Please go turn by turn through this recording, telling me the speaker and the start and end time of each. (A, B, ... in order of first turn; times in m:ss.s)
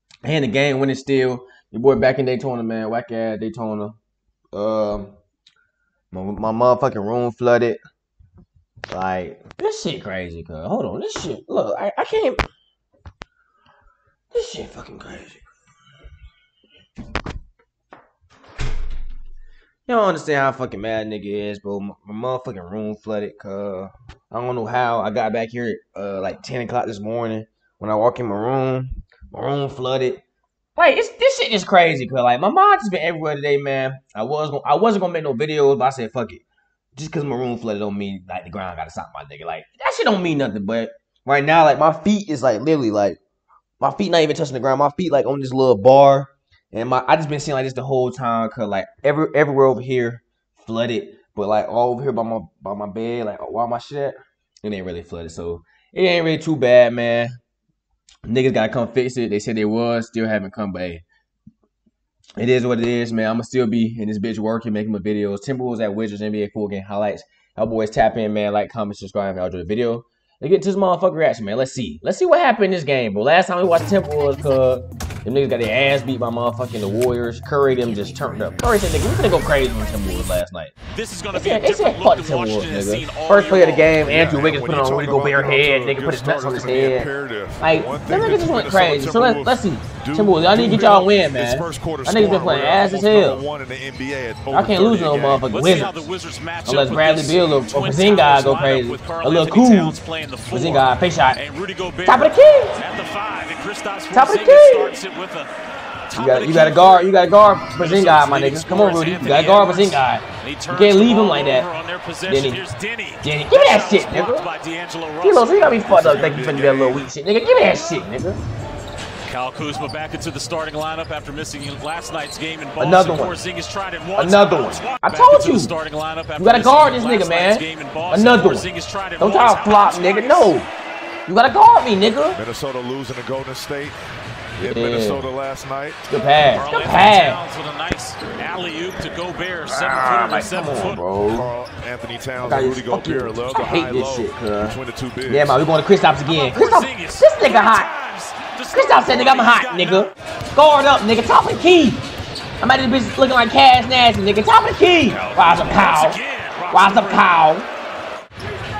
0:00.2-0:04.0 A
0:04.5-0:05.2 A
0:06.1-0:07.8 A
0:08.9-0:12.4 A
0:14.3-0:15.4 A
0:19.8-0:30.2 A
0:30.8-0:36.4 A
0:37.0-0:43.2 A
0:43.8-0:57.4 A
0:58.2-1:01.0 A
1:02.4-1:20.7 A
1:20.9-1:24.0 B
1:21.3-1:27.1 A
1:24.0-1:35.5 C
1:27.6-1:33.4 A
1:34.5-1:36.0 A
1:35.5-1:45.5 B
1:36.6-1:40.0 A
1:40.5-1:41.4 A
1:42.0-1:42.8 A
1:44.1-1:45.0 A
1:46.1-1:55.8 B
1:46.2-1:51.7 A
1:52.3-1:52.6 A
1:53.2-1:54.4 A
1:55.2-1:58.4 A
1:55.8-1:57.1 C
1:59.2-2:10.6 B
2:02.8-2:03.4 A
2:04.2-2:05.7 A
2:06.4-2:08.7 A
2:09.2-2:10.7 A
2:11.2-2:12.4 A
2:12.3-2:14.0 C
2:14.6-2:15.3 A
2:14.6-2:16.0 C
2:16.1-2:17.4 A
2:16.5-2:21.0 B
2:19.7-2:21.5 A
2:21.3-2:25.6 C
2:22.4-2:27.9 A
2:26.2-2:30.1 B
2:28.7-2:32.0 A
2:32.6-2:36.2 A
2:35.0-2:37.3 B
2:36.7-2:37.7 A